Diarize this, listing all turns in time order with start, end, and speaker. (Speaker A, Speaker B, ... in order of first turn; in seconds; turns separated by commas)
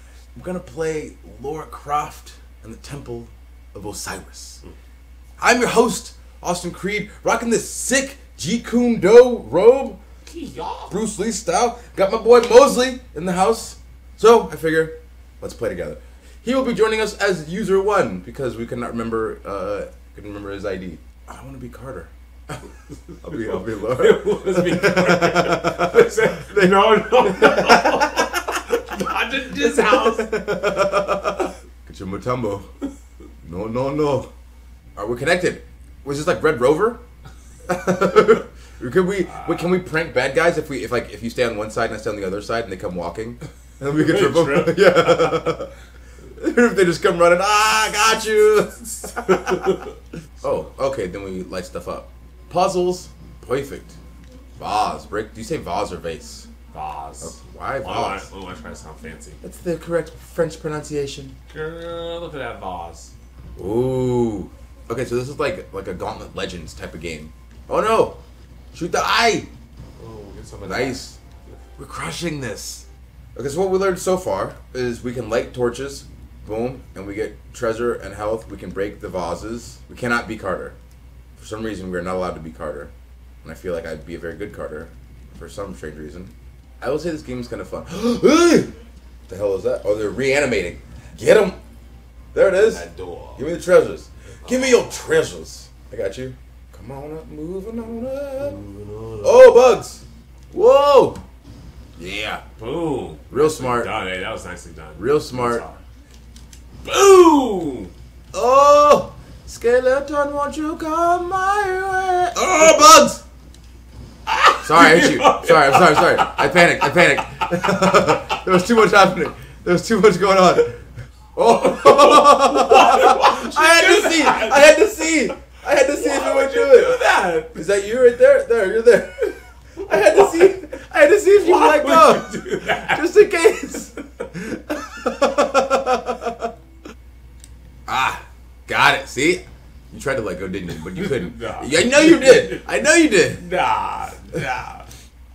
Speaker A: 0.3-4.6, Speaker A: 5.4-10.0, Speaker B: 10.3-10.9, Speaker A: 10.9-22.7, Speaker A: 23.2-28.6, Speaker B: 23.3-30.3, Speaker A: 29.6-32.6, Speaker A: 33.4-34.3, Speaker A: 35.0-37.0, Speaker A: 37.7-45.7, Speaker B: 39.3-39.6, Speaker B: 43.9-45.5, Speaker A: 46.4-49.7, Speaker B: 49.0-49.9, Speaker A: 50.4-54.0, Speaker A: 54.6-56.5, Speaker B: 56.7-59.4, Speaker A: 57.2-58.3, Speaker A: 59.4-61.4, Speaker B: 61.5-63.1, Speaker A: 63.5-68.2, Speaker A: 68.7-69.5, Speaker B: 70.0-71.0, Speaker A: 70.6-71.2, Speaker A: 71.8-80.7, Speaker A: 81.4-82.9, Speaker A: 83.4-88.7, Speaker A: 89.3-91.6, Speaker A: 92.3-92.8, Speaker B: 92.5-93.5, Speaker A: 93.4-98.6, Speaker B: 94.4-95.1, Speaker B: 98.4-99.5, Speaker A: 99.2-101.2, Speaker A: 102.0-102.4, Speaker B: 102.6-105.8, Speaker A: 103.3-103.9, Speaker A: 105.0-105.6, Speaker B: 106.8-107.9, Speaker A: 108.3-113.2, Speaker B: 114.3-116.5, Speaker A: 114.6-120.8, Speaker A: 121.3-127.0, Speaker B: 121.5-127.7, Speaker A: 127.5-136.5, Speaker B: 129.9-130.5, Speaker B: 131.4-133.1, Speaker A: 137.9-143.4, Speaker B: 140.8-142.7, Speaker B: 143.3-144.9